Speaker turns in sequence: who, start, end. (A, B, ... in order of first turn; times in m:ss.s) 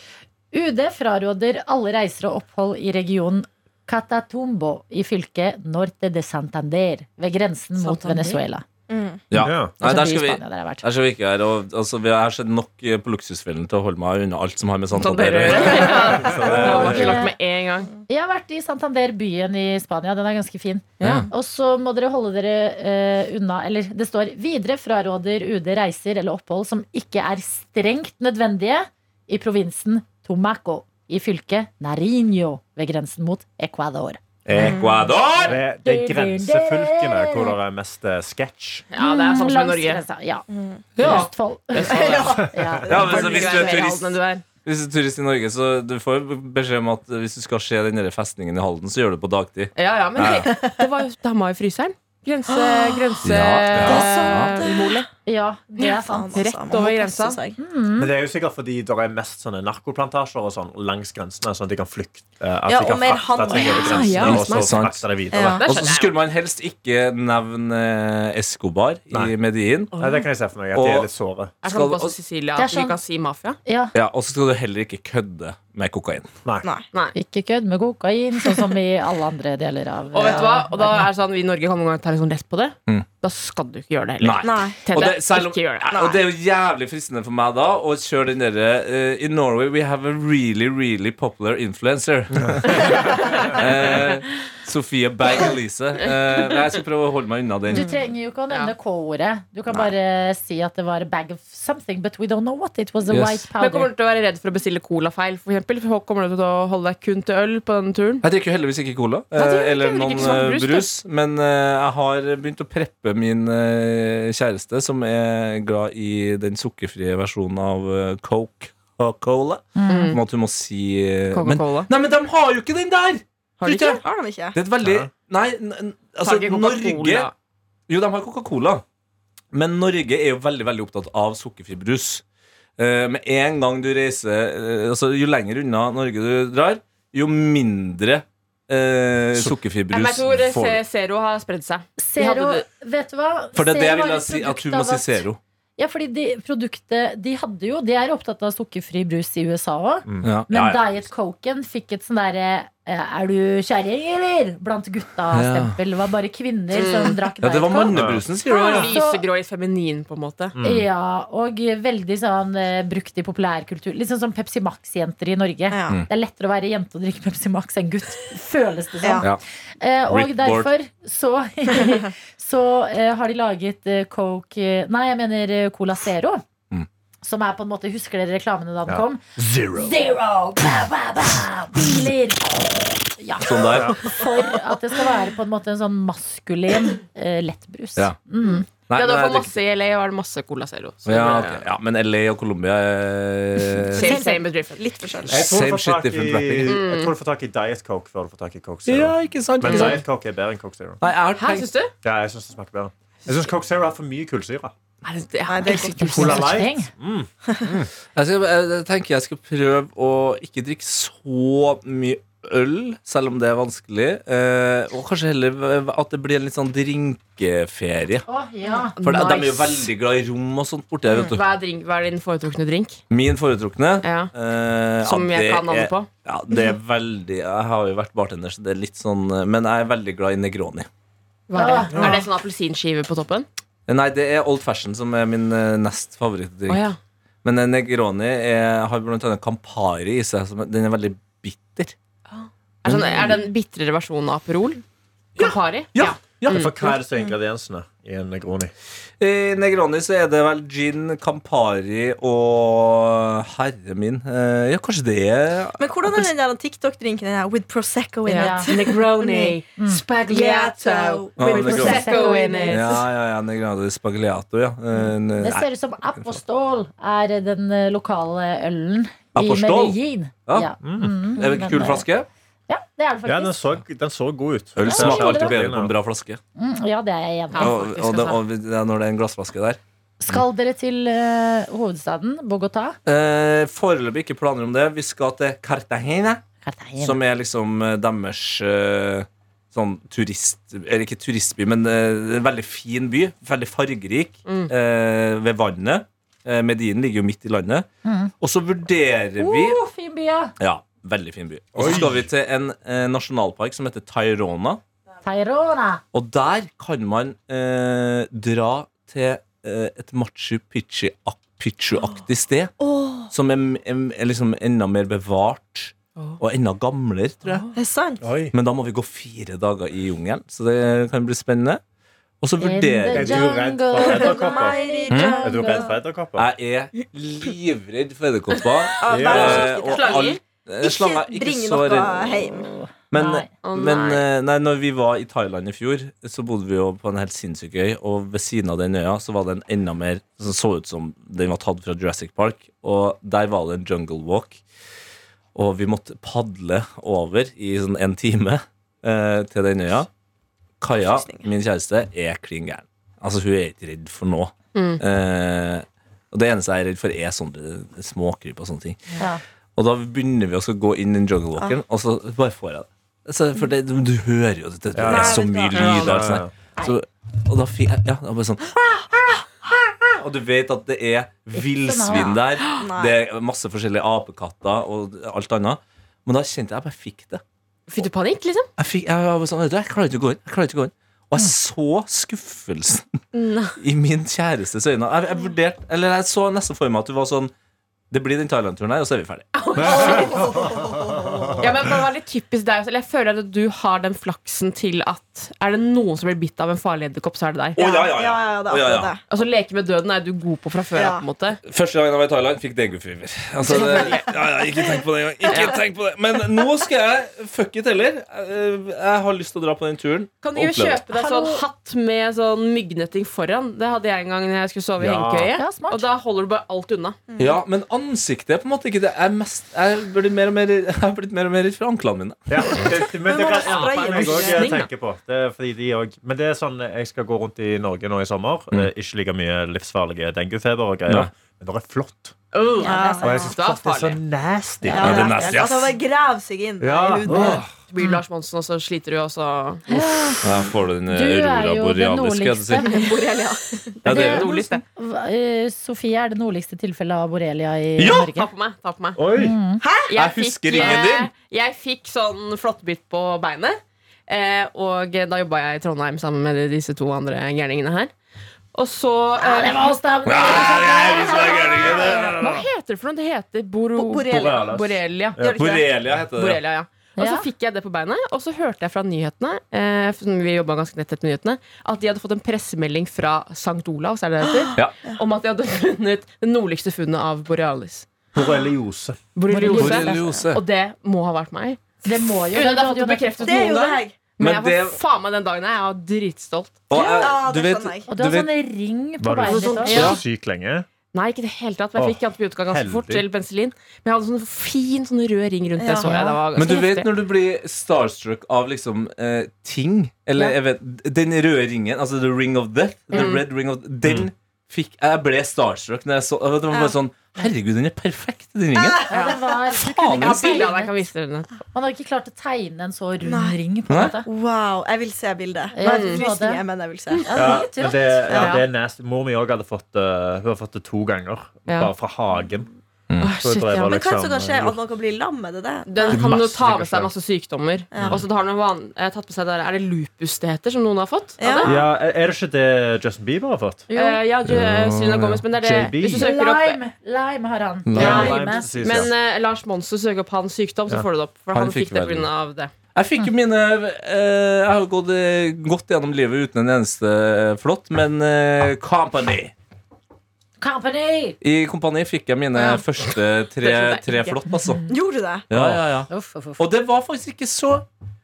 0:00.5-0:08.6 A
0:07.8-0:08.4 B
0:08.9-0:09.2 C
0:09.3-0:17.2 D
0:09.4-0:09.7 E
0:09.8-0:10.8 A
0:14.9-0:17.9 B
0:15.5-0:17.2 E
0:16.8-0:17.3 A
0:18.1-0:34.7 A
0:21.0-0:21.3 B
0:21.0-0:21.3 D
0:34.4-0:35.6 D
0:34.6-0:35.2 C
0:35.4-0:37.6 A
0:35.4-0:38.8 E
0:38.9-0:40.0 B
0:39.0-0:43.0 A
0:40.5-0:40.9 C
0:41.0-0:50.5 D
0:41.8-0:44.0 C
0:42.9-0:44.4 B
0:49.8-0:55.1 B
0:50.2-0:50.8 C
0:52.5-0:53.2 C
0:53.2-0:54.6 D
0:53.8-0:55.0 C
0:55.2-0:56.4 A
0:55.8-0:57.4 B
0:55.9-0:57.6 C
0:57.6-0:58.1 A
0:58.0-1:05.6 E
1:02.7-1:04.3 C
1:03.5-1:04.8 B
1:03.6-1:04.3 A
1:04.0-1:10.0 D
1:05.3-1:05.6 C
1:05.3-1:06.1 B
1:09.9-1:11.5 E
1:10.7-1:11.1 D
1:11.6-1:13.6 B
1:11.6-1:12.2 D
1:12.6-1:13.0 A
1:13.6-1:13.9 A
1:13.9-1:16.3 D
1:17.1-1:21.1 A
1:20.1-1:26.0 B
1:24.2-1:37.9 D
1:24.4-1:24.8 C
1:25.9-1:26.2 C
1:32.8-1:34.5 B
1:36.0-1:36.7 B
1:37.7-1:43.9 A
1:43.1-1:43.4 D
1:43.6-1:48.2 B
1:48.2-2:04.0 D
1:49.4-1:50.9 B
1:59.8-2:00.2 A
1:59.9-2:00.2 B
2:01.3-2:01.9 B
2:03.6-2:04.0 B
2:04.0-2:04.6 C
2:04.5-2:07.3 D
2:04.8-2:05.1 E
2:06.2-2:07.3 B
2:07.9-2:08.8 D
2:09.5-2:12.2 D
2:12.8-2:20.8 D
2:19.9-2:22.6 B
2:22.0-2:25.2 A
2:23.5-2:25.4 D
2:25.8-2:38.0 A
2:30.2-2:31.0 D
2:35.3-2:35.8 D
2:36.7-2:37.2 B
2:37.4-2:38.9 D
2:37.9-2:38.2 E
2:38.5-2:40.5 B
2:38.5-2:39.2 A
2:40.5-2:40.9 E
2:40.6-2:56.4 A
2:45.7-2:46.0 C
2:50.1-2:50.7 D
2:57.2-2:59.2 A
2:58.8-2:59.9 E
2:59.7-3:08.7 A
3:03.4-3:04.2 D
3:03.6-3:04.1 E
3:08.8-3:09.5 D
3:08.8-3:11.6 B
3:11.0-3:14.1 D
3:13.8-3:15.1 B
3:14.0-3:15.5 C
3:14.0-3:14.4 A
3:15.3-3:16.8 D
3:15.3-3:21.0 E
3:16.6-3:17.1 B
3:18.9-3:20.0 D
3:19.6-3:20.0 B
3:21.0-3:21.7 D
3:21.4-3:21.9 B
3:22.0-3:24.7 E
3:25.0-3:26.5 B
3:25.5-3:26.3 C
3:25.6-3:26.9 A
3:26.1-3:27.9 E
3:28.1-3:38.3 D
3:38.3-3:38.9 A
3:38.6-3:39.9 B
3:39.0-3:41.4 D
3:41.1-3:41.3 C
3:41.2-3:43.0 B
3:43.1-3:50.9 D
3:44.0-3:44.3 B
3:45.0-3:46.1 B
3:51.5-3:53.5 B
3:51.5-3:52.0 A
3:53.9-3:56.9 D
3:56.7-3:57.0 B
3:57.4-4:01.9 D
4:02.3-4:04.8 B
4:02.8-4:03.5 D
4:05.4-4:06.7 B
4:05.4-4:07.0 D
4:06.5-4:08.7 E
4:09.2-4:16.3 D
4:15.8-4:19.6 C
4:18.2-4:23.0 B
4:18.4-4:18.8 A
4:19.8-4:20.0 A
4:20.3-4:22.7 C
4:21.4-4:22.1 D
4:21.6-4:23.0 A
4:22.7-4:26.4 D
4:25.4-4:32.0 A
4:29.3-4:32.3 D
4:30.8-4:31.2 E
4:32.7-4:33.6 A
4:33.2-4:35.9 E
4:34.8-4:36.4 D
4:34.8-4:35.6 A
4:36.6-4:37.8 A
4:37.5-4:38.4 B
4:37.6-4:40.4 D
4:40.2-4:43.0 A
4:43.0-4:46.4 D
4:46.6-4:47.2 A
4:47.0-4:57.8 D
4:54.4-4:54.7 B
4:58.0-4:58.3 A
4:58.4-4:59.8 D
4:59.4-5:00.5 A
5:00.6-5:04.8 D
5:01.8-5:02.3 E
5:05.2-5:06.0 A
5:06.1-5:12.7 D
5:12.8-5:13.3 C
5:13.3-5:17.6 D
5:17.4-5:17.7 B
5:17.7-5:18.3 C
5:18.2-5:18.5 E
5:18.5-5:21.8 D
5:22.4-5:23.6 D
5:22.6-5:25.9 A
5:23.1-5:24.8 E
5:24.0-5:25.9 C
5:25.1-5:25.3 D
5:25.3-5:26.5 E
5:26.4-5:32.3 D
5:29.0-5:32.8 C
5:29.1-5:29.7 E
5:29.7-5:30.4 B
5:32.5-5:33.5 A
5:33.1-5:44.6 D
5:33.6-5:34.2 B
5:45.5-5:50.1 D
5:50.8-5:59.0 D
5:51.0-5:51.5 C
5:54.7-5:55.0 B
5:59.8-6:17.4 D
6:04.9-6:06.5 E
6:05.1-6:06.2 C
6:11.5-6:12.4 A
6:12.8-6:13.2 C
6:17.9-6:18.7 B
6:18.8-6:23.2 D
6:23.3-6:23.8 B
6:23.8-6:27.5 D
6:28.1-6:30.1 D
6:29.5-6:30.7 B
6:29.8-6:31.7 C
6:29.8-6:31.7 E
6:31.6-6:37.8 B
6:37.7-6:39.1 D
6:37.8-6:39.2 C
6:39.3-6:41.6 B
6:40.9-6:41.2 C
6:41.6-6:51.0 D
6:43.6-6:44.3 B
6:43.7-6:45.8 C
6:50.4-6:57.2 B
6:51.1-6:51.6 A
6:55.0-6:55.6 E
6:55.6-6:56.0 A
6:57.3-6:57.6 C
6:57.4-7:02.8 D
7:02.5-7:12.3 E
7:03.2-7:04.8 C
7:03.5-7:04.9 B
7:12.5-7:14.2 B
7:12.8-7:13.5 A
7:12.8-7:13.5 C
7:13.2-7:15.3 E
7:14.9-7:17.6 C
7:15.0-7:16.0 D
7:16.8-7:17.7 E
7:17.3-7:18.2 A
7:17.9-7:19.8 B
7:19.9-7:20.4 A
7:20.4-7:22.9 D
7:21.1-7:23.0 A
7:22.9-7:24.0 C
7:24.0-7:24.8 B
7:24.0-7:24.5 D
7:24.1-7:28.5 A
7:28.0-7:28.3 D
7:28.0-7:29.2 B
7:29.2-7:29.6 E
7:29.4-7:29.8 A
7:29.8-7:30.1 C
7:30.1-7:38.1 B
7:30.1-7:31.3 D
7:38.7-7:39.8 B
7:39.4-7:42.4 A
7:40.2-7:42.5 D
7:41.9-7:58.1 B
7:44.0-7:44.8 C
7:44.3-7:45.6 E
7:45.5-7:46.6 D
7:47.2-7:47.5 A
7:54.6-7:55.2 C
7:58.3-7:59.2 E
7:59.3-8:01.8 B
7:59.5-8:00.2 A
7:59.7-8:00.6 D
8:02.0-8:03.7 A
8:02.5-8:07.2 B
8:03.4-8:04.2 C
8:04.4-8:05.0 D
8:06.9-8:08.5 D
8:06.9-8:08.1 C
8:08.1-8:10.1 A
8:09.2-8:10.9 E
8:09.4-8:10.2 B
8:09.9-8:10.2 D
8:11.1-8:17.1 B
8:12.0-8:13.2 E
8:15.8-8:16.2 C
8:16.0-8:16.4 A
8:16.5-8:29.0 D
8:23.1-8:23.4 B
8:24.0-8:24.3 E
8:26.7-8:27.0 C
8:28.7-8:29.0 C
8:29.1-8:31.1 A
8:29.1-8:29.5 B
8:29.7-8:30.7 D
8:30.2-8:31.5 B
8:31.7-8:34.2 A
8:33.2-8:33.6 C
8:33.9-8:34.2 D
8:34.2-8:37.7 C
8:35.7-8:36.6 A
8:35.8-8:36.2 B
8:37.2-8:38.3 A
8:37.3-8:42.7 E
8:38.3-8:38.6 C
8:38.4-8:38.6 B
8:41.7-8:41.9 B
8:43.1-8:43.3 D
8:43.2-8:44.0 B
8:43.2-8:44.8 E
8:43.7-8:46.2 C
8:45.9-8:51.8 B
8:46.1-8:47.1 D
8:47.9-8:48.2 C
8:51.4-8:51.8 C
8:51.6-8:53.9 E
8:53.9-8:56.8 B
8:54.4-8:55.5 D
8:55.6-8:56.3 E
8:56.2-8:59.0 A
8:57.8-8:58.4 D
8:57.9-8:59.1 E
8:58.0-9:02.7 B
9:01.5-9:02.3 D
9:02.9-9:09.5 D
9:10.6-9:11.4 A
9:11.4-9:14.9 D
9:12.5-9:14.4 B
9:14.9-9:15.5 C
9:15.5-9:17.8 D
9:16.1-9:16.7 A